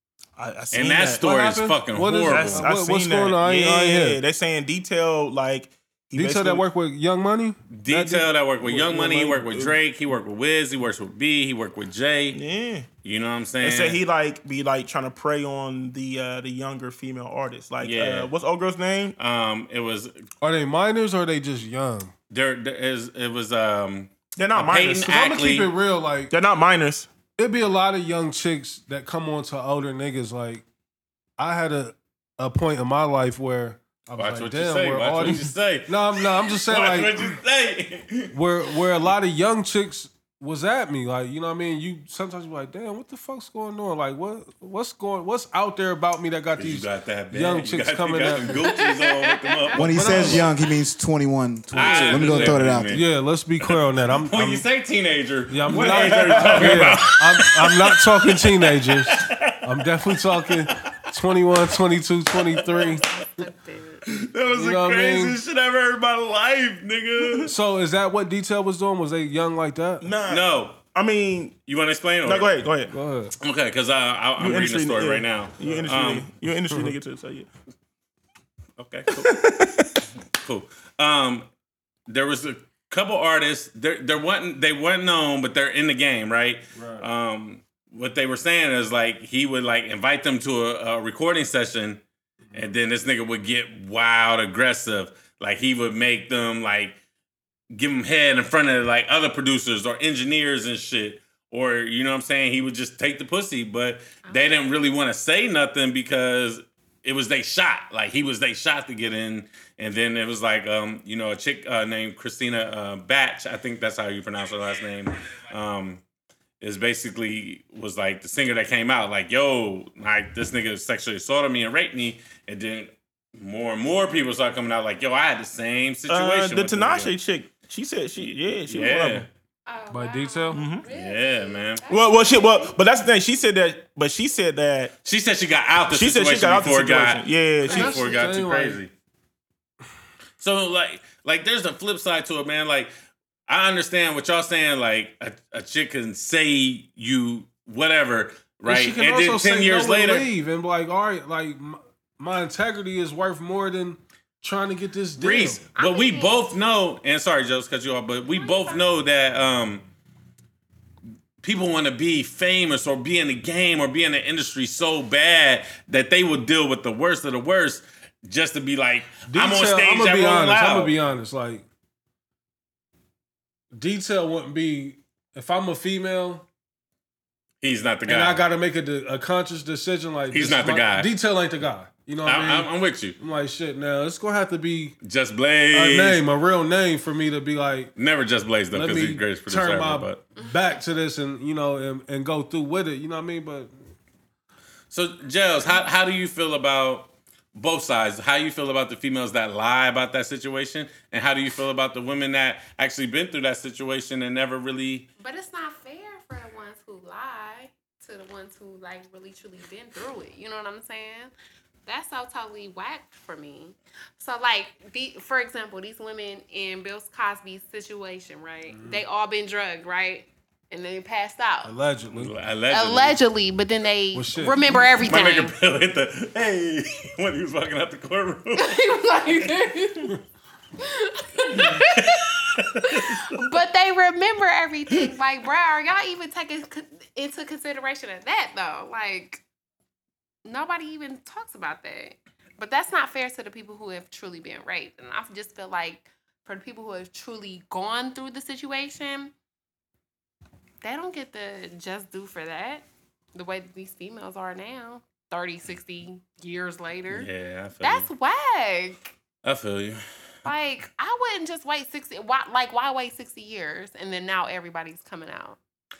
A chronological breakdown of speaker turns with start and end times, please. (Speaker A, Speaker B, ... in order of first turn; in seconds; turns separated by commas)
Speaker A: 0.4-1.2, Speaker B: 0.7-2.7, Speaker C: 1.2-4.2, Speaker A: 2.3-6.6, Speaker C: 6.1-9.7, Speaker B: 7.7-12.4, Speaker A: 12.3-12.9, Speaker B: 13.0-14.0, Speaker A: 13.6-19.1, Speaker B: 17.8-18.3, Speaker B: 19.2-20.2, Speaker C: 20.4-22.1, Speaker B: 22.3-25.7, Speaker A: 24.4-25.4, Speaker C: 25.1-26.3, Speaker A: 26.3-27.1, Speaker C: 27.4-30.6, Speaker C: 31.4-37.4, Speaker B: 34.2-38.4, Speaker C: 38.3-48.6, Speaker B: 46.6-50.5, Speaker D: 48.5-50.0, Speaker E: 49.8-53.0, Speaker C: 49.8-50.5, Speaker C: 51.7-54.6, Speaker B: 51.7-53.1, Speaker B: 53.6-60.9, Speaker C: 55.5-63.0, Speaker A: 55.7-57.0, Speaker B: 62.6-62.9, Speaker D: 63.0-64.0, Speaker B: 64.0-67.5, Speaker C: 64.5-65.4, Speaker A: 67.2-67.5, Speaker C: 67.5-70.1, Speaker A: 70.0-71.6, Speaker B: 70.3-70.8, Speaker B: 71.7-72.5, Speaker A: 72.2-72.9, Speaker C: 72.9-73.3, Speaker B: 73.4-76.3, Speaker A: 74.4-77.5, Speaker B: 78.8-79.4, Speaker A: 79.1-80.0, Speaker B: 80.3-81.5, Speaker B: 82.1-92.0, Speaker C: 86.7-87.1, Speaker C: 92.5-92.7, Speaker B: 92.5-97.0, Speaker B: 97.7-116.0, Speaker D: 104.2-104.6, Speaker B: 116.6-127.1, Speaker A: 126.1-129.3, Speaker B: 128.7-129.3, Speaker D: 129.7-132.8, Speaker C: 129.9-130.6, Speaker A: 130.5-130.8, Speaker B: 130.9-131.8, Speaker A: 131.9-134.9, Speaker B: 135.0-138.9, Speaker A: 135.9-138.1, Speaker C: 137.7-138.8, Speaker D: 137.7-138.3, Speaker B: 140.4-142.9, Speaker B: 143.5-150.3, Speaker C: 148.7-155.6, Speaker B: 155.2-159.8, Speaker D: 155.7-156.5, Speaker D: 158.2-158.8, Speaker B: 161.4-170.9, Speaker C: 169.3-171.7, Speaker C: 173.7-176.4, Speaker B: 177.6-178.4, Speaker C: 178.1-185.0, Speaker B: 180.3-181.1, Speaker B: 182.2-183.2, Speaker B: 185.0-186.2, Speaker C: 185.7-187.9, Speaker B: 187.9-190.2, Speaker C: 188.7-193.7, Speaker D: 190.3-190.8, Speaker B: 194.9-205.1, Speaker D: 205.2-211.3, Speaker D: 211.8-221.7, Speaker C: 218.7-219.0, Speaker C: 221.6-222.3, Speaker B: 222.1-223.2, Speaker D: 222.7-225.6, Speaker C: 224.1-224.9, Speaker B: 224.7-228.8, Speaker D: 228.5-230.2, Speaker D: 230.8-239.4, Speaker B: 231.5-233.4, Speaker D: 240.4-249.3, Speaker D: 250.8-257.3, Speaker B: 257.1-258.1, Speaker D: 257.8-259.1, Speaker B: 259.4-260.0, Speaker D: 260.4-265.6